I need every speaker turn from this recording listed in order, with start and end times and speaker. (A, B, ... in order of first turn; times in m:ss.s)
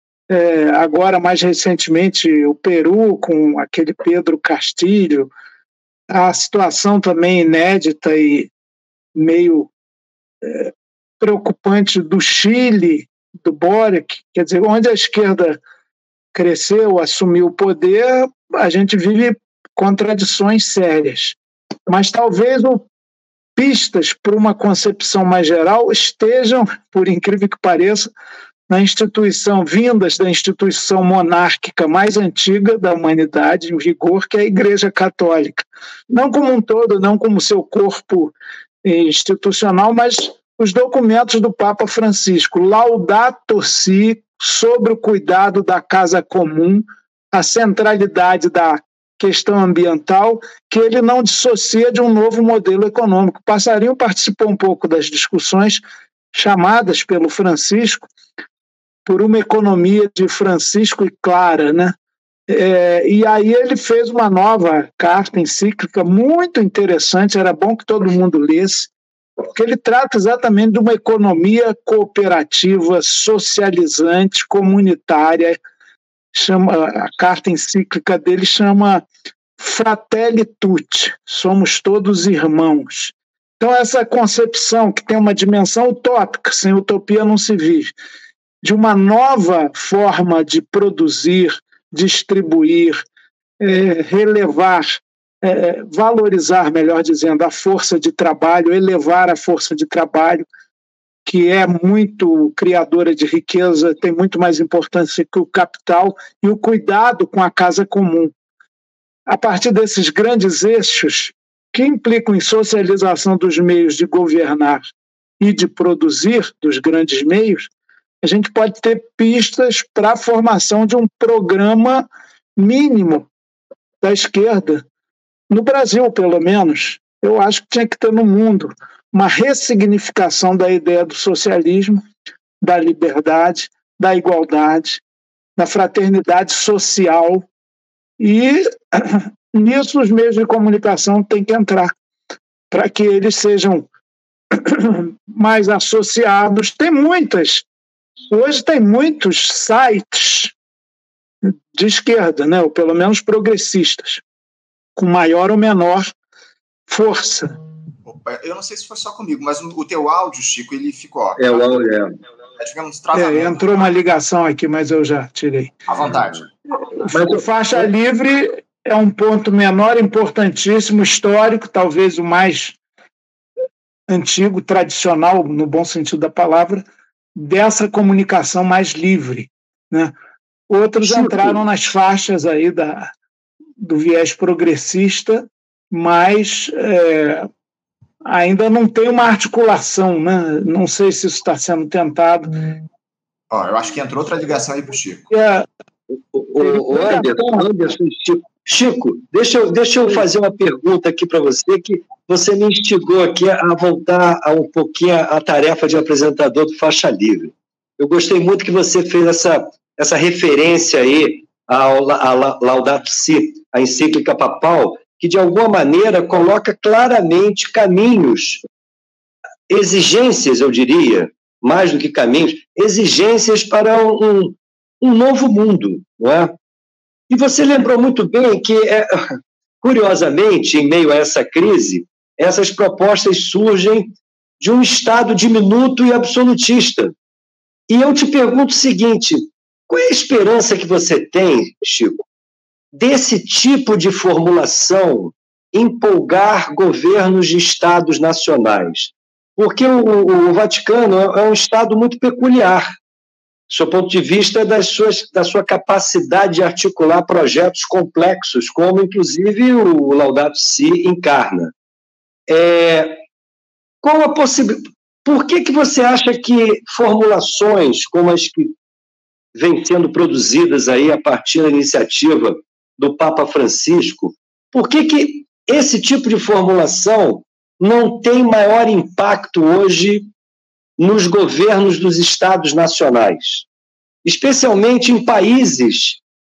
0:00.3-0:05.3 A
0:06.1-0:08.5 A
0:09.2-0:09.7 A
0:10.4-0:15.6 A
0:16.3-0:21.4 A
0:21.9-0:22.8 A
0:23.6-0:28.1 A
0:28.7-0:38.3 A
0:38.8-0:55.8 A
0:56.3-0:58.1 A
0:59.1-1:02.0 A
1:02.5-1:08.9 A
1:09.5-1:15.6 A
1:16.3-1:19.0 A
1:19.6-1:27.9 A
1:28.6-1:33.0 A
1:33.6-1:40.4 A
1:41.3-1:48.3 A
1:49.3-1:57.7 A
1:58.2-2:03.3 A
2:04.0-2:04.8 A
2:05.5-2:12.0 A
2:12.6-2:15.0 A
2:15.6-2:17.5 A
2:18.2-2:21.9 A
2:22.7-2:23.9 A
2:24.5-2:27.6 A
2:28.3-2:30.5 A
2:31.4-2:34.2 A
2:35.0-2:36.1 A
2:36.9-2:37.5 A
2:38.0-2:41.8 B
2:41.4-2:42.2 C
2:42.6-2:43.7 B
2:43.1-2:45.7 A
2:45.9-2:46.4 B
2:47.0-2:52.8 A
2:47.1-2:47.8 C
2:54.1-2:56.8 A
2:57.4-3:00.2 A
3:00.7-3:03.1 A
3:01.0-3:01.6 C
3:03.8-3:07.5 A
3:08.3-3:12.5 A
3:13.5-3:15.3 B
3:15.3-3:15.7 A
3:16.3-3:38.6 C
3:16.6-3:17.7 A
3:39.7-3:46.6 C
3:47.3-3:57.2 C
3:57.9-4:02.2 C
4:02.9-4:13.0 C
4:13.7-4:21.7 C
4:22.5-4:23.2 C
4:24.0-4:28.7 C
4:29.6-4:40.3 C
4:41.0-4:43.7 C
4:44.2-4:46.2 C